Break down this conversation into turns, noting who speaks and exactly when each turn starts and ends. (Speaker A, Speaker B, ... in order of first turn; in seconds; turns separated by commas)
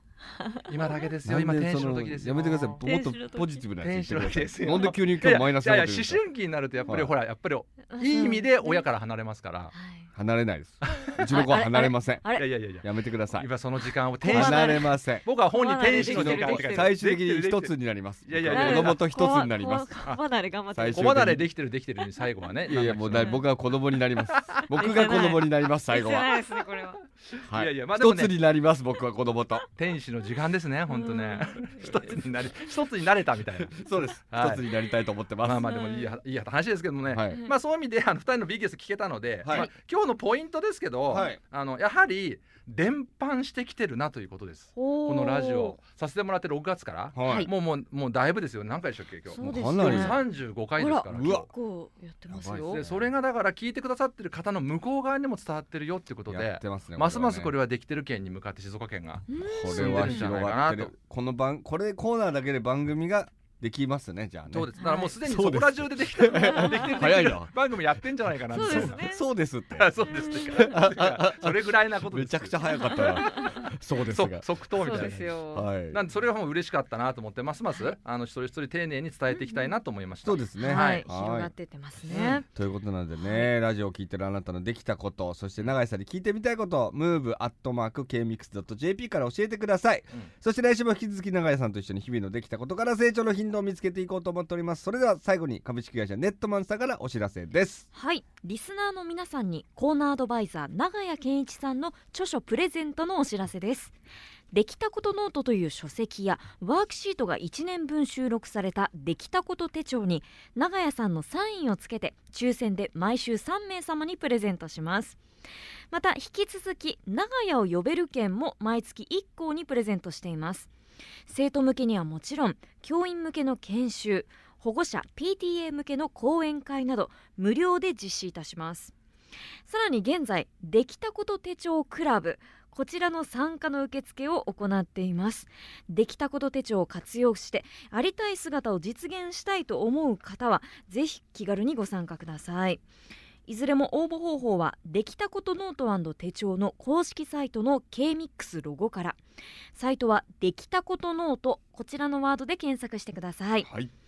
Speaker A: 0.3-1.1, Speaker B: 0.7-2.8, Speaker C: 1.2-6.2, Speaker A: 2.8-3.6, Speaker B: 3.8-9.7, Speaker C: 6.9-7.1, Speaker A: 7.9-8.8, Speaker A: 9.7-10.1, Speaker C: 10.1-13.5, Speaker A: 11.3-12.4, Speaker B: 12.3-19.0, Speaker A: 14.2-16.9, Speaker C: 14.2-15.2, Speaker C: 15.9-19.9, Speaker A: 18.5-21.1, Speaker C: 20.7-21.5, Speaker B: 20.9-23.5, Speaker C: 22.7-26.3, Speaker B: 24.3-25.2, Speaker A: 24.7-27.0, Speaker B: 26.7-28.4, Speaker C: 27.5-29.7, Speaker B: 29.8-34.7, Speaker A: 30.9-32.1, Speaker C: 33.8-35.6, Speaker B: 35.4-51.5, Speaker A: 35.6-36.2, Speaker C: 37.1-37.4, Speaker A: 37.3-37.5, Speaker C: 39.4-39.7, Speaker C: 41.1-41.4, Speaker A: 41.1-41.4, Speaker A: 44.8-45.8, Speaker C: 47.1-47.5, Speaker A: 47.2-47.5, Speaker A: 49.2-50.2, Speaker C: 49.4-50.2, Speaker A: 50.8-52.8, Speaker C: 51.1-51.5, Speaker C: 52.3-53.1, Speaker B: 52.6-60.9, Speaker C: 56.3-57.5, Speaker A: 59.3-60.3, Speaker C: 59.4-67.6, Speaker B: 64.5-69.0, Speaker A: 64.8-65.1, Speaker A: 66.3-67.0, Speaker A: 68.5-69.2, Speaker C: 68.5-69.9, Speaker B: 69.7-75.4, Speaker A: 70.0-70.7, Speaker C: 70.4-76.0, Speaker A: 72.8-73.7, Speaker A: 74.8-75.7, Speaker B: 75.9-81.0, Speaker A: 79.3-79.7, Speaker C: 80.2-81.5, Speaker A: 80.6-82.5, Speaker B: 82.0-82.4, Speaker C: 82.5-97.8, Speaker A: 83.1-83.5, Speaker A: 97.9-103.9, Speaker A: 104.5-115.2, Speaker A: 115.9-120.7, Speaker A: 121.3-128.9, Speaker A: 129.7-142.8, Speaker A: 143.4-149.2, Speaker A: 149.7-153.7, Speaker C: 153.6-153.9